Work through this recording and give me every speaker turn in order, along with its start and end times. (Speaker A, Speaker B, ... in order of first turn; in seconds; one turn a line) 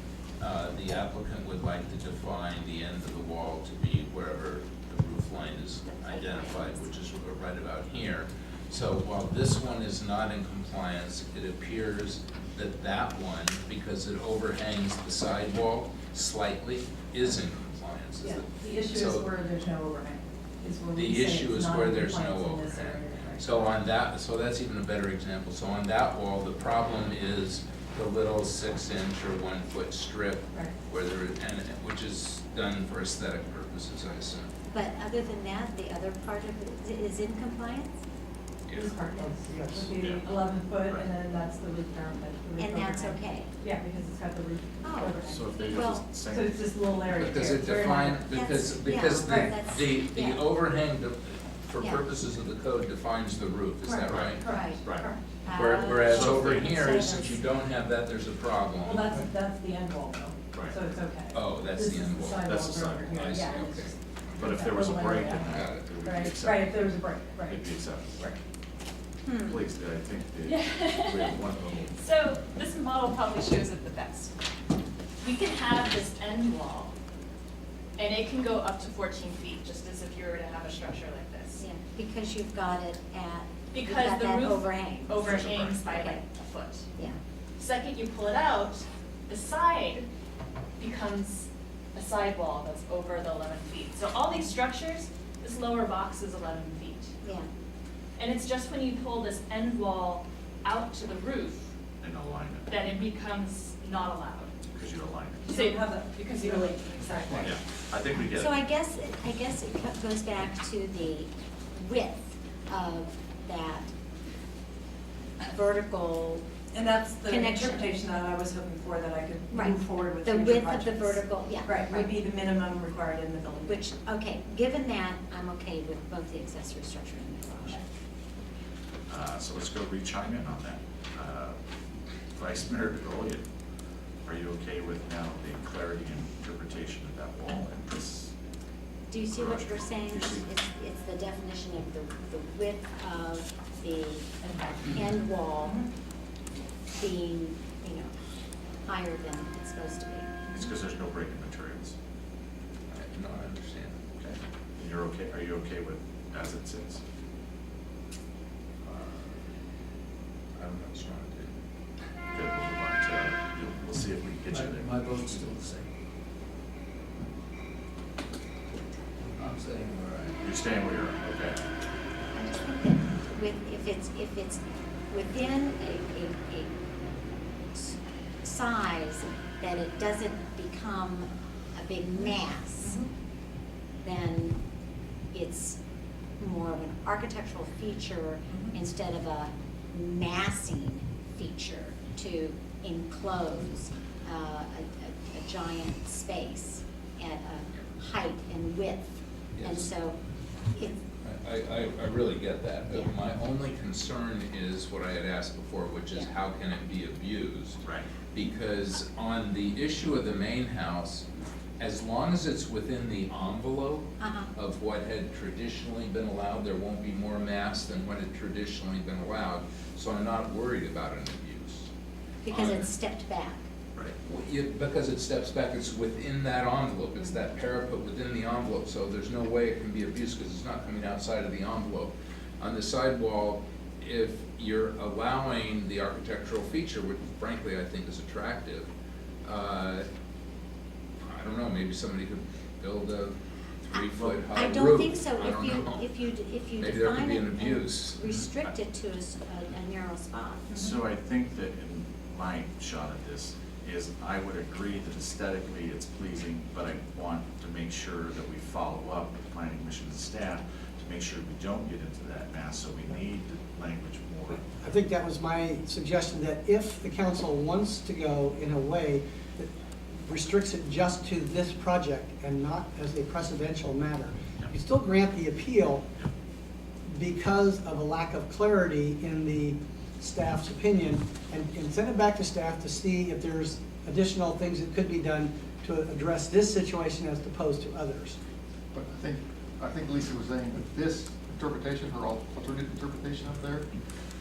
Speaker A: 0.4-19.3
Speaker B: 6.0-6.8
Speaker C: 18.2-23.8
Speaker A: 20.9-34.5
Speaker C: 30.5-30.8
Speaker B: 34.7-38.0
Speaker A: 38.7-38.9
Speaker C: 38.7-48.3
Speaker D: 39.2-39.8
Speaker E: 39.9-40.2
Speaker B: 42.6-43.5
Speaker B: 44.8-46.0
Speaker E: 44.9-46.6
Speaker A: 47.1-54.4
Speaker B: 48.3-50.4
Speaker C: 49.1-49.5
Speaker C: 53.8-55.3
Speaker E: 54.1-55.1
Speaker B: 54.4-54.8
Speaker B: 55.4-57.4
Speaker A: 55.5-59.1
Speaker E: 56.0-57.0
Speaker C: 58.8-68.4
Speaker A: 61.3-62.5
Speaker E: 62.4-63.5
Speaker A: 63.0-64.4
Speaker E: 64.4-68.2
Speaker A: 65.5-65.9
Speaker B: 69.2-69.6
Speaker E: 69.4-72.0
Speaker F: 70.4-71.4
Speaker F: 71.9-74.3
Speaker F: 75.2-76.9
Speaker F: 78.0-81.7
Speaker B: 81.6-86.2
Speaker F: 83.7-86.9
Speaker E: 85.2-85.7
Speaker F: 87.6-90.1
Speaker F: 90.8-97.1
Speaker B: 97.2-97.5
Speaker F: 98.2-101.7
Speaker E: 102.0-102.7
Speaker F: 102.7-104.5
Speaker E: 104.7-105.6
Speaker C: 105.4-107.6
Speaker F: 105.5-105.8
Speaker B: 106.4-106.7
Speaker E: 107.4-108.6
Speaker B: 108.2-113.9
Speaker B: 115.4-116.5
Speaker C: 116.7-123.9
Speaker B: 117.2-117.8
Speaker B: 119.5-122.2
Speaker B: 123.6-127.8
Speaker E: 129.1-131.6
Speaker E: 132.3-133.4
Speaker E: 134.2-138.3
Speaker B: 139.1-145.8
Speaker E: 139.3-140.5
Speaker C: 144.4-144.9
Speaker C: 145.6-145.8
Speaker B: 147.0-148.1
Speaker B: 148.8-150.4
Speaker E: 150.5-151.9
Speaker A: 152.9-154.0
Speaker E: 154.2-157.0
Speaker A: 160.5-161.6
Speaker E: 162.3-165.6
Speaker G: 164.5-165.9
Speaker G: 169.2-170.4
Speaker E: 170.4-171.6
Speaker B: 172.3-176.7
Speaker B: 177.7-183.0
Speaker B: 184.0-184.6
Speaker B: 185.3-185.8
Speaker B: 186.4-200.2
Speaker A: 199.6-199.9
Speaker B: 200.7-201.0
Speaker A: 201.2-211.3
Speaker B: 202.9-203.2
Speaker A: 211.8-221.9
Speaker B: 214.2-214.5
Speaker B: 222.4-223.6
Speaker A: 222.5-222.9
Speaker A: 224.2-238.9
Speaker A: 239.4-240.1
Speaker A: 241.2-246.1
Speaker B: 243.9-250.8
Speaker A: 246.8-248.4
Speaker E: 250.7-264.8
Speaker D: 264.6-269.7
Speaker D: 270.2-276.1
Speaker D: 277.1-288.4
Speaker H: 288.9-293.9